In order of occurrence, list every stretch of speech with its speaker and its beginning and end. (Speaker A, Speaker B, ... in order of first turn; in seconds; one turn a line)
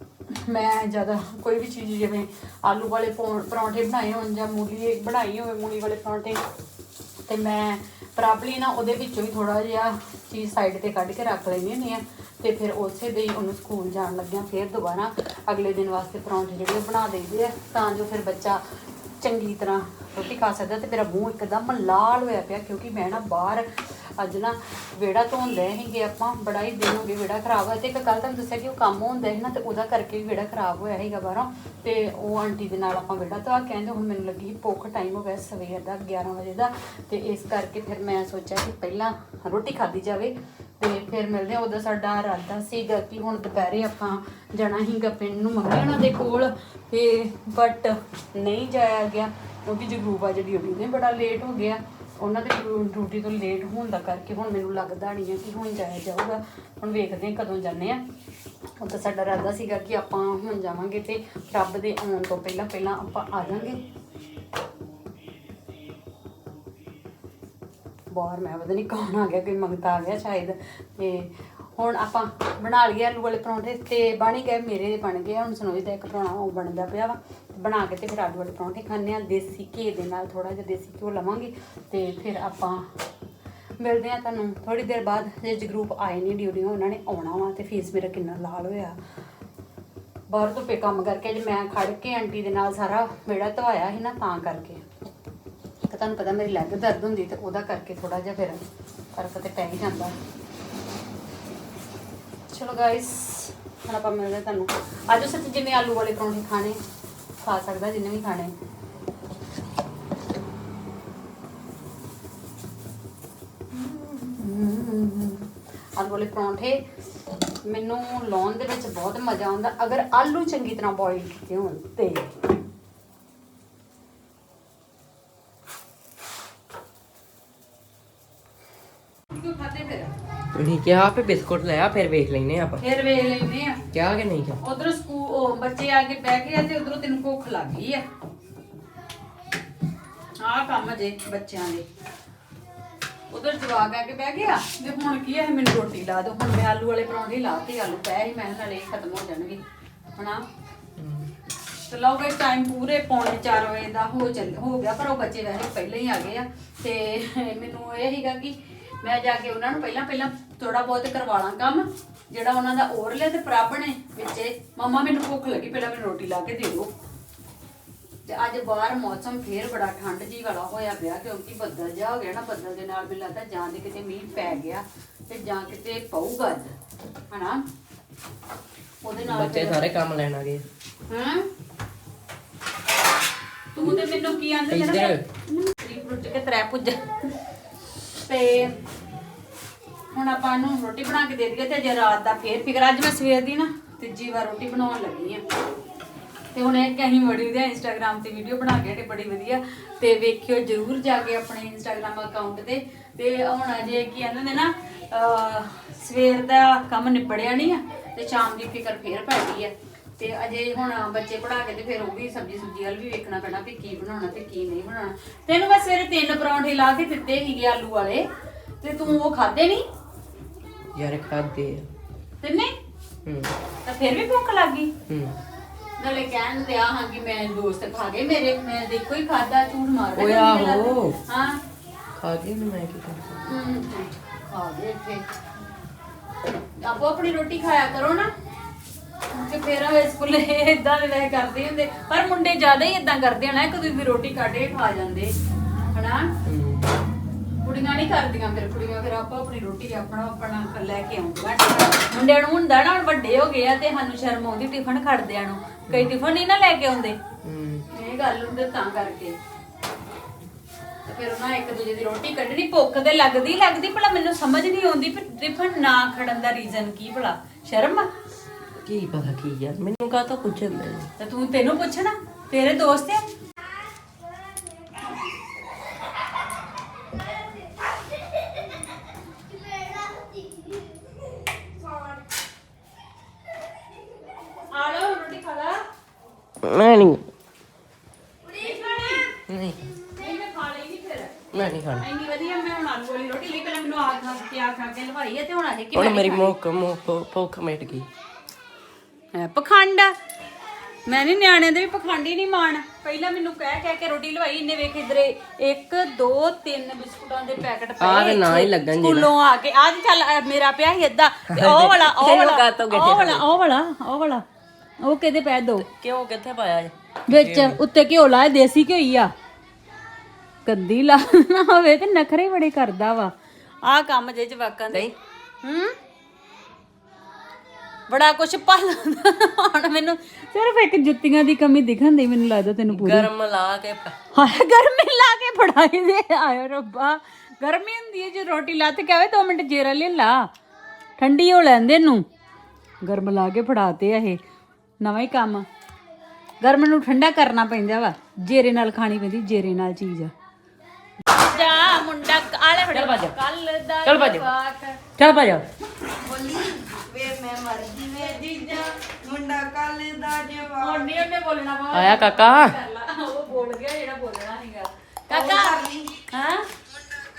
Speaker A: 0.3-6.4
Speaker A: 7.2-18.6
Speaker A: 19.2-58.0
Speaker A: 58.8-63.8
Speaker A: 68.1-82.9
Speaker A: 83.8-89.0
Speaker A: 90.3-94.8
Speaker A: 95.8-98.6
Speaker A: 99.1-100.1
Speaker A: 102.5-106.8
Speaker A: 107.4-108.5
Speaker A: 113.7-116.8
Speaker A: 117.6-122.3
Speaker A: 129.3-130.1
Speaker B: 130.5-132.8
Speaker A: 132.8-133.8
Speaker B: 133.9-134.6
Speaker A: 134.6-138.0
Speaker A: 140.4-141.8
Speaker A: 143.3-149.6
Speaker A: 150.2-150.4
Speaker B: 151.0-151.3
Speaker A: 151.9-166.9
Speaker A: 168.2-176.7
Speaker A: 177.3-177.6
Speaker A: 179.0-179.9
Speaker B: 179.2-180.6
Speaker A: 181.1-181.5
Speaker A: 183.7-187.0
Speaker B: 184.7-185.2
Speaker A: 188.2-188.8
Speaker A: 190.1-195.4
Speaker A: 196.5-218.3
Speaker A: 218.8-219.8
Speaker B: 220.9-221.9
Speaker A: 222.4-222.7
Speaker B: 223.2-223.5
Speaker A: 223.8-224.9
Speaker B: 225.1-225.4
Speaker A: 226.0-231.6
Speaker B: 230.1-231.1
Speaker B: 232.2-233.4
Speaker A: 233.4-235.2
Speaker A: 236.8-238.3
Speaker A: 239.3-245.3
Speaker A: 245.9-246.3
Speaker B: 246.4-246.8
Speaker A: 247.6-257.2
Speaker B: 257.4-257.8
Speaker A: 257.9-259.4
Speaker A: 261.0-268.1
Speaker B: 268.8-271.1
Speaker A: 271.2-273.2
Speaker A: 284.7-285.8
Speaker B: 286.6-287.3
Speaker A: 288.5-289.3
Speaker B: 289.5-289.8
Speaker A: 290.1-296.5
Speaker B: 291.5-292.1
Speaker B: 295.9-298.1
Speaker A: 299.3-300.1
Speaker A: 301.1-314.4
Speaker B: 308.0-309.3
Speaker B: 311.5-313.5
Speaker A: 315.0-315.9
Speaker B: 315.8-317.8
Speaker A: 317.3-319.3
Speaker A: 320.6-325.1
Speaker A: 325.6-325.9
Speaker A: 328.1-333.3
Speaker B: 332.9-334.1
Speaker A: 334.3-340.5
Speaker A: 341.2-342.2
Speaker A: 343.0-344.4
Speaker A: 345.0-345.6
Speaker A: 346.6-350.3
Speaker A: 351.3-355.0
Speaker B: 352.9-353.3
Speaker B: 354.0-354.4
Speaker B: 355.2-355.6
Speaker C: 356.1-361.2
Speaker A: 358.2-358.9
Speaker A: 360.8-365.8
Speaker B: 361.9-362.7
Speaker C: 365.3-366.1
Speaker A: 366.3-366.7